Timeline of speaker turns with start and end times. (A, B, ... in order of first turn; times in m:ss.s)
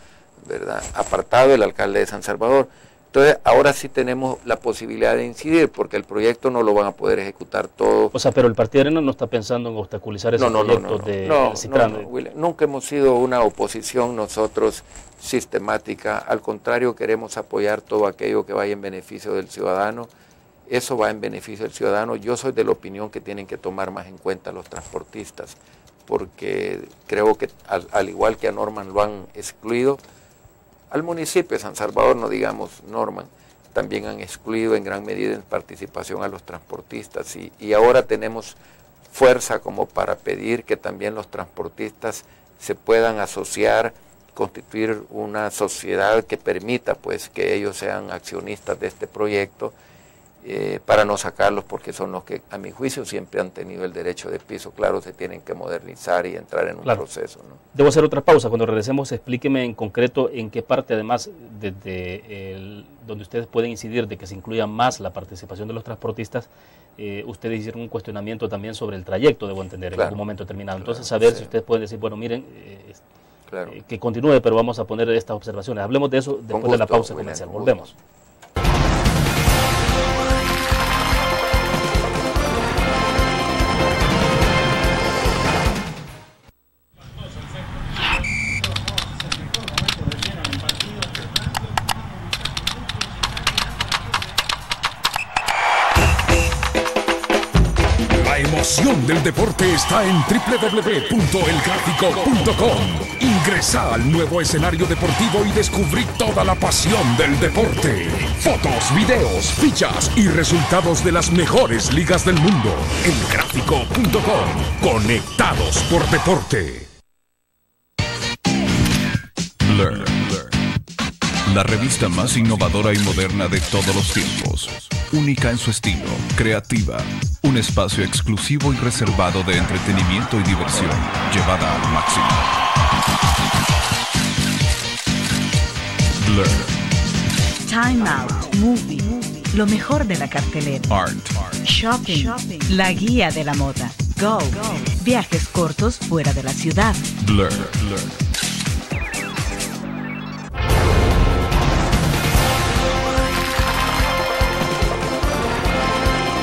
0:00.4-0:08.1 A
0:08.1-0:12.1 B
0:10.4-0:20.1 A
0:20.7-0:30.0 A
0:30.9-0:38.6 A
0:39.1-0:49.7 A
0:50.4-0:57.6 A
0:57.7-1:13.0 B
1:10.8-1:11.5 A
1:13.5-1:13.7 A
1:13.7-1:17.9 B
1:16.5-1:17.9 A
1:38.1-1:56.9 C
1:59.6-2:00.6 C
2:01.5-2:12.6 C
2:16.2-2:16.7 C
2:17.6-2:20.9 D
2:20.9-2:21.6 C
2:21.6-2:27.1 D
2:27.2-2:28.2 C